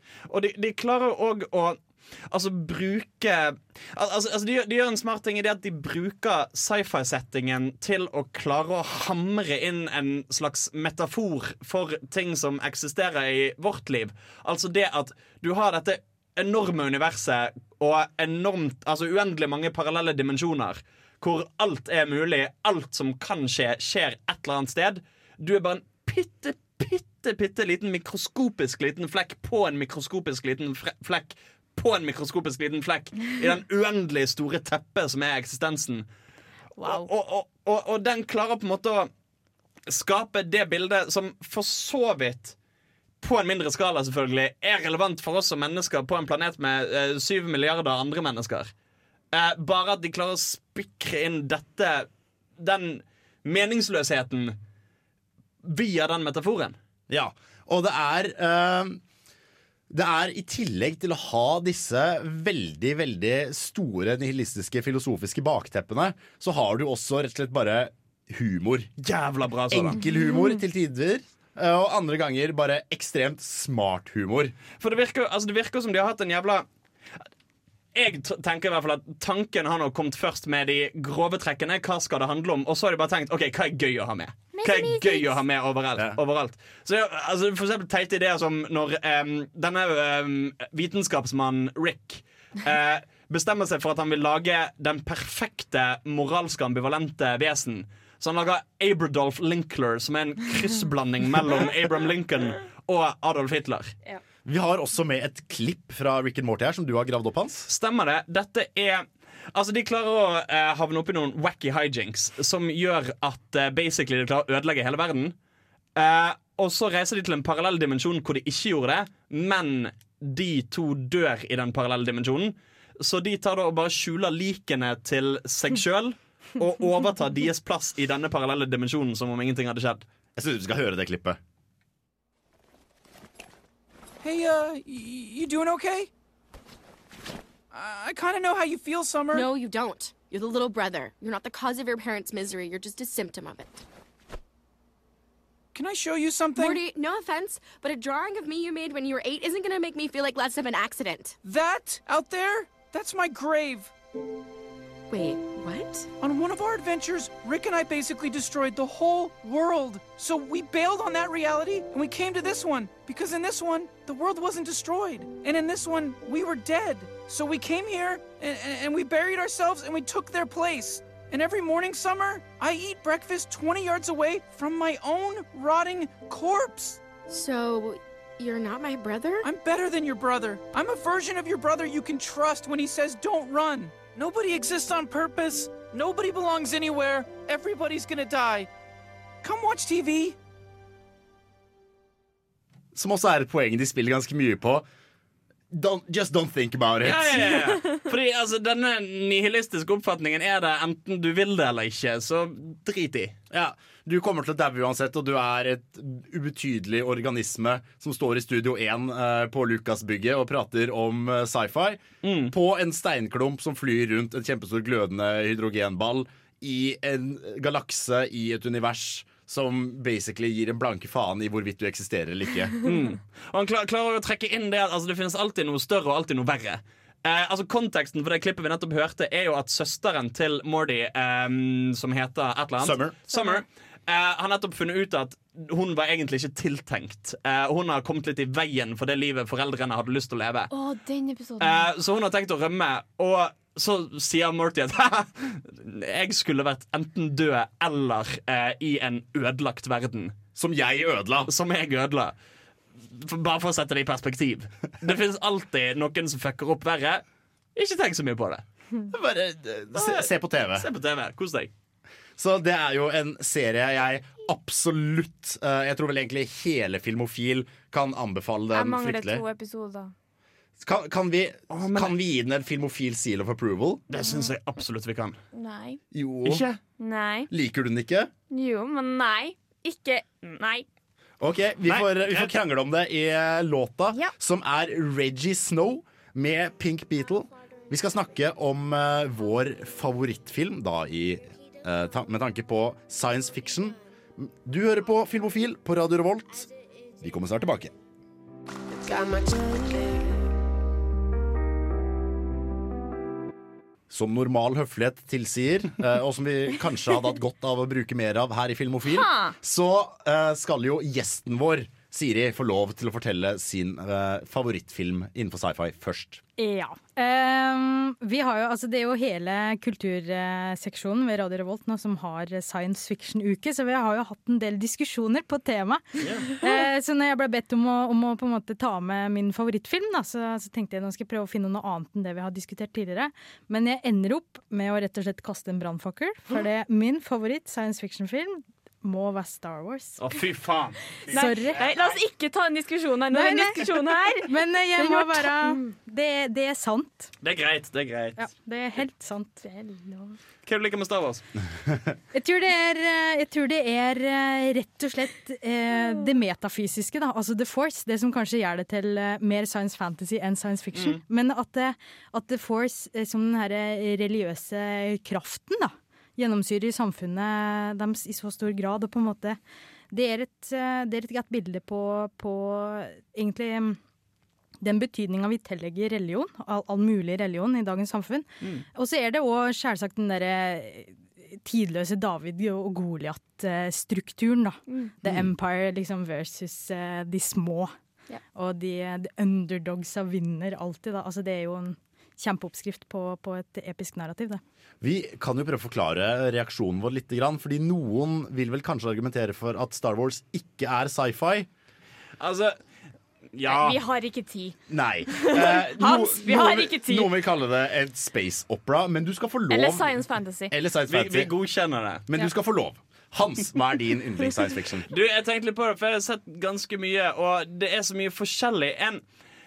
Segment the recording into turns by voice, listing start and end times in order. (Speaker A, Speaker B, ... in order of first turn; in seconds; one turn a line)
Speaker A: 0.3-36.1
Speaker B: 36.8-37.1
Speaker A: 36.8-39.1
Speaker A: 39.9-42.5
Speaker A: 43.2-48.7
Speaker A: 49.3-52.1
Speaker A: 52.6-54.6
Speaker A: 55.6-56.8
Speaker C: 57.1-59.0
Speaker C: 59.9-68.9
Speaker A: 69.0-70.0
Speaker C: 69.7-74.5
Speaker A: 74.8-76.7
Speaker A: 78.0-104.0
Speaker B: 84.5-85.3
Speaker C: 104.5-107.7
Speaker A: 107.7-115.3
Speaker A: 116.0-130.0
Speaker C: 130.4-131.4
Speaker D: 134.2-136.1
Speaker D: 137.7-139.4
Speaker E: 139.3-143.8
Speaker D: 145.8-146.8
Speaker E: 146.6-151.4
Speaker D: 151.4-153.9
Speaker E: 155.1-156.1
Speaker D: 156.2-177.0
Speaker E: 177.3-179.5
Speaker D: 179.4-188.7
Speaker D: 189.4-190.3
Speaker C: 192.9-194.8
Speaker C: 195.7-197.7
Speaker A: 197.0-203.4
Speaker C: 203.5-222.8
Speaker A: 212.2-212.5
Speaker A: 222.8-240.7
Speaker C: 232.8-233.2
Speaker B: 233.3-233.6
Speaker B: 240.7-241.9
Speaker A: 241.6-250.4
Speaker C: 250.6-251.5
Speaker A: 251.5-252.3
Speaker A: 253.0-257.2
Speaker A: 257.8-258.6
Speaker C: 259.1-260.9
Speaker A: 259.9-261.7
Speaker C: 262.4-269.4
Speaker B: 268.7-270.1
Speaker C: 270.8-274.0
Speaker A: 271.7-272.1
Speaker A: 274.1-275.4
Speaker B: 274.2-274.5
Speaker B: 275.5-276.0
Speaker C: 276.1-276.6
Speaker A: 276.4-276.8
Speaker B: 277.0-277.5
Speaker C: 277.5-278.3
Speaker B: 278.5-280.9
Speaker C: 281.4-297.9
Speaker A: 281.9-282.5
Speaker E: 299.0-300.5
Speaker C: 304.1-316.4
Speaker B: 309.1-309.6
Speaker F: 316.6-340.2
Speaker A: 326.2-326.5
Speaker A: 340.2-342.0
Speaker B: 341.3-345.9
Speaker F: 341.4-341.8
Speaker F: 343.3-347.3
Speaker A: 347.4-348.4
Speaker F: 348.4-349.6
Speaker B: 349.6-350.4
Speaker A: 350.6-351.4
Speaker F: 352.3-369.6
Speaker A: 360.9-361.2
Speaker F: 370.1-374.0
Speaker F: 374.8-387.9
Speaker B: 384.9-385.1
Speaker C: 385.2-385.5
Speaker F: 388.5-394.6
Speaker C: 395.0-401.7
Speaker A: 402.4-402.8
Speaker A: 403.6-404.0
Speaker B: 403.6-404.8
Speaker C: 404.9-411.5
Speaker B: 405.3-407.4
Speaker B: 409.7-410.7
Speaker A: 411.1-412.2
Speaker C: 412.3-415.1
Speaker A: 415.1-419.2